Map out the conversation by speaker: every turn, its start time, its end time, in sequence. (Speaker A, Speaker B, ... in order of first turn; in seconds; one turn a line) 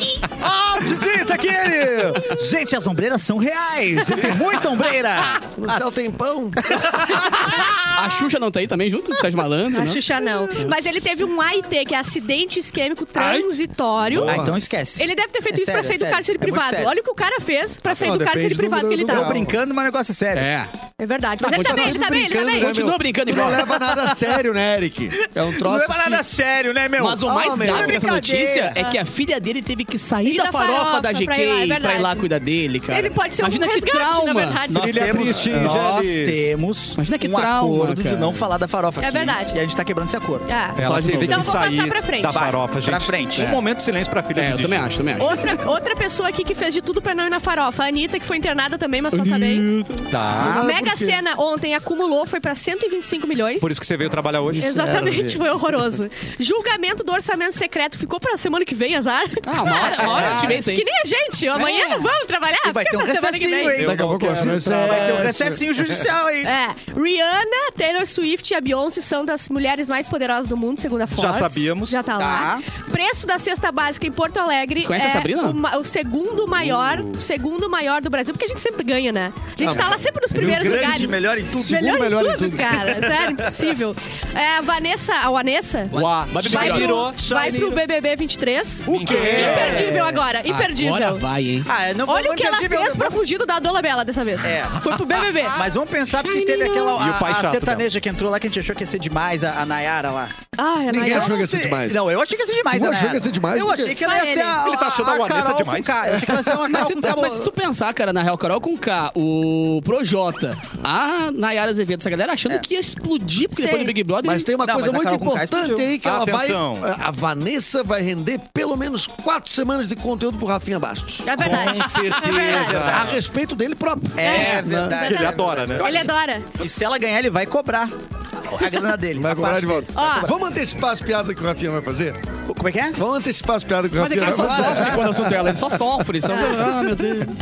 Speaker A: 0.3-5.8
Speaker B: 5.5-6.8
Speaker A: 6.6-7.7
Speaker C: 7.9-10.0
Speaker D: 9.7-14.3
Speaker E: 14.1-14.5
Speaker A: 14.2-16.9
Speaker B: 14.2-14.6
Speaker D: 14.9-19.3
Speaker B: 17.9-19.6
Speaker A: 19.1-20.5
Speaker C: 20.3-20.7
Speaker D: 21.0-22.8
Speaker C: 21.4-23.6
Speaker B: 21.5-26.2
Speaker A: 23.5-24.3
Speaker A: 25.5-28.8
Speaker C: 27.0-34.6
Speaker B: 27.2-28.1
Speaker D: 30.2-32.3
Speaker D: 32.9-35.4
Speaker E: 34.7-36.5
Speaker A: 34.7-40.5
Speaker B: 35.4-35.8
Speaker C: 37.0-38.4
Speaker D: 39.0-39.6
Speaker D: 40.5-40.8
Speaker E: 40.8-45.0
Speaker C: 40.8-41.5
Speaker D: 41.3-42.5
Speaker A: 42.4-43.5
Speaker C: 44.3-45.3
Speaker D: 45.2-49.7
Speaker C: 49.1-50.1
Speaker E: 50.1-50.6
Speaker A: 50.4-50.9
Speaker D: 50.5-53.7
Speaker E: 53.6-55.2
Speaker D: 54.6-63.8
Speaker B: 54.7-55.4
Speaker C: 59.5-60.8
Speaker E: 60.1-60.5
Speaker C: 61.5-62.0
Speaker A: 62.6-66.5
Speaker E: 63.8-65.3
Speaker B: 63.8-66.0
Speaker D: 66.4-91.2
Speaker E: 71.1-72.0
Speaker A: 72.1-72.6
Speaker C: 74.8-75.6
Speaker E: 76.4-77.2
Speaker B: 79.6-83.0
Speaker A: 80.4-81.8
Speaker C: 85.9-87.0
Speaker E: 85.9-87.8
Speaker E: 88.9-89.9
Speaker A: 88.9-90.2
Speaker B: 89.0-89.9
Speaker C: 90.4-91.7
Speaker A: 91.7-93.2
Speaker D: 92.0-95.6
Speaker A: 94.4-100.3
Speaker E: 95.3-95.7
Speaker D: 96.2-96.9
Speaker E: 97.0-97.9
Speaker D: 100.6-101.5
Speaker B: 100.9-102.0
Speaker A: 101.0-107.5
Speaker B: 102.7-104.0
Speaker D: 104.0-104.6
Speaker E: 104.5-106.1
Speaker B: 106.1-106.9
Speaker C: 106.7-114.5
Speaker D: 113.5-113.9
Speaker B: 114.2-121.7
Speaker A: 114.6-115.9
Speaker E: 116.0-116.9
Speaker D: 121.2-122.8
Speaker E: 121.4-123.2
Speaker A: 122.3-123.1
Speaker B: 122.4-124.9
Speaker A: 124.2-130.3
Speaker D: 124.2-126.5
Speaker E: 125.0-126.1
Speaker B: 129.1-132.2
Speaker D: 129.9-130.3
Speaker A: 132.5-133.0
Speaker B: 132.9-136.1
Speaker C: 134.0-137.3
Speaker A: 134.2-135.0
Speaker D: 136.2-136.7